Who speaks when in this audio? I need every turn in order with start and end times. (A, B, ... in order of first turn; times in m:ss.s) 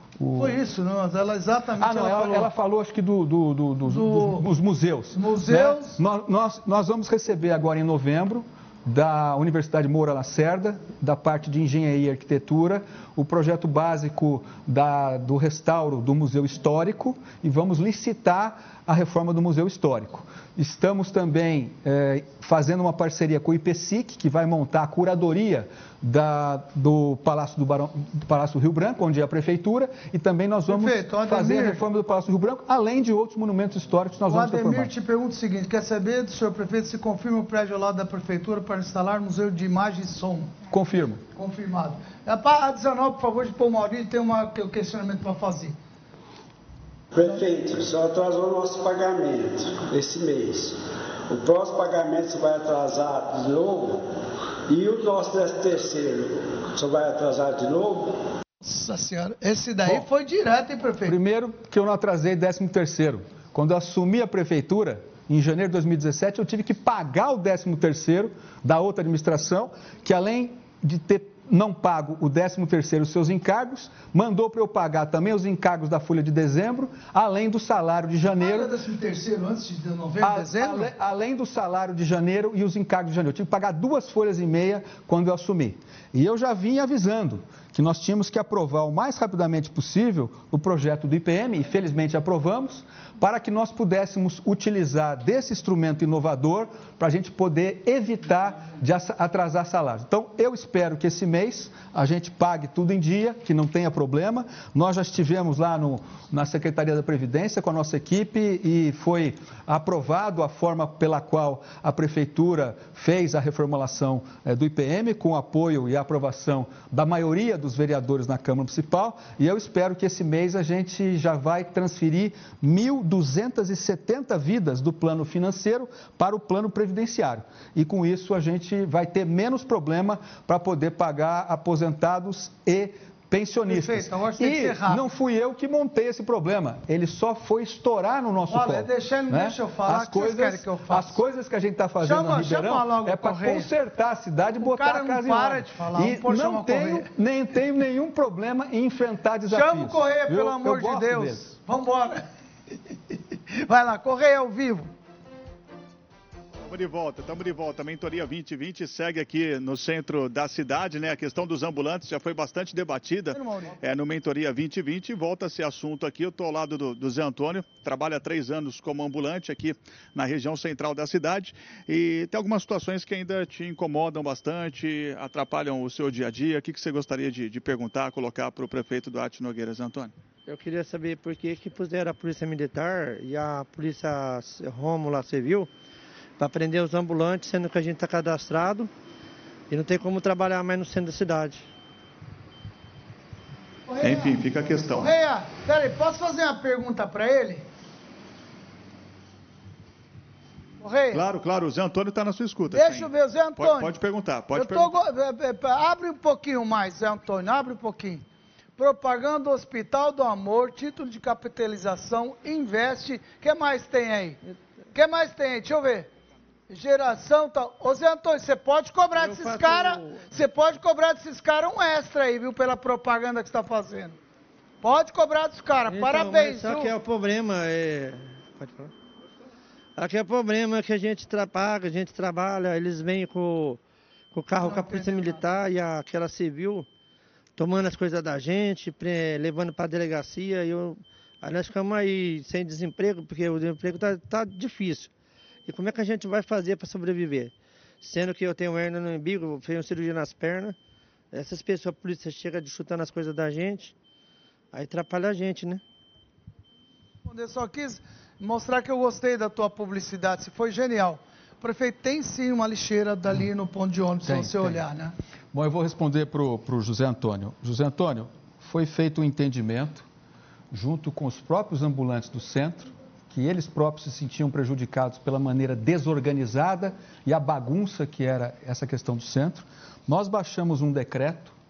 0:00.2-0:00.6 A
0:00.4-0:02.5 B
0:01.8-0:34.9 A
0:03.9-0:04.5 B
0:05.1-0:06.0 B
0:30.7-0:31.8 B
0:34.3-0:40.6 B
0:40.7-0:41.2 A
0:41.4-0:45.8 B
0:47.1-0:58.3 C
0:58.6-1:01.2 B
1:01.1-1:18.7 A
1:18.3-1:20.9 B
1:20.2-2:31.6 A
2:13.7-2:15.1 B
2:18.5-2:21.2 B
2:22.0-2:23.7 B
2:24.6-2:27.1 B
2:29.5-2:32.3 B
2:33.1-2:34.9 B
2:36.7-3:00.1 D
2:43.3-2:43.8 B
3:00.5-3:05.7 E
3:06.4-3:08.9 E
3:09.7-3:11.7 E
3:13.9-3:17.7 B
3:14.0-3:15.1 D
3:20.8-3:21.3 B
3:21.1-3:25.0 D
3:22.7-3:24.0 B
3:24.5-3:28.2 B
3:28.8-3:34.4 B
3:34.9-3:36.1 B
3:36.7-3:44.2 B
3:39.2-3:40.3 E
3:44.8-3:47.0 B
3:45.9-3:48.9 E
3:50.0-3:53.8 E
3:54.3-3:56.9 E
3:54.6-3:55.5 B
3:57.6-4:05.1 E
4:05.7-4:10.8 E
4:11.3-4:13.9 E
4:14.7-4:15.8 E
4:17.2-4:25.1 B
4:24.2-4:24.8 A
4:25.5-4:30.0 A
4:30.7-4:41.6 A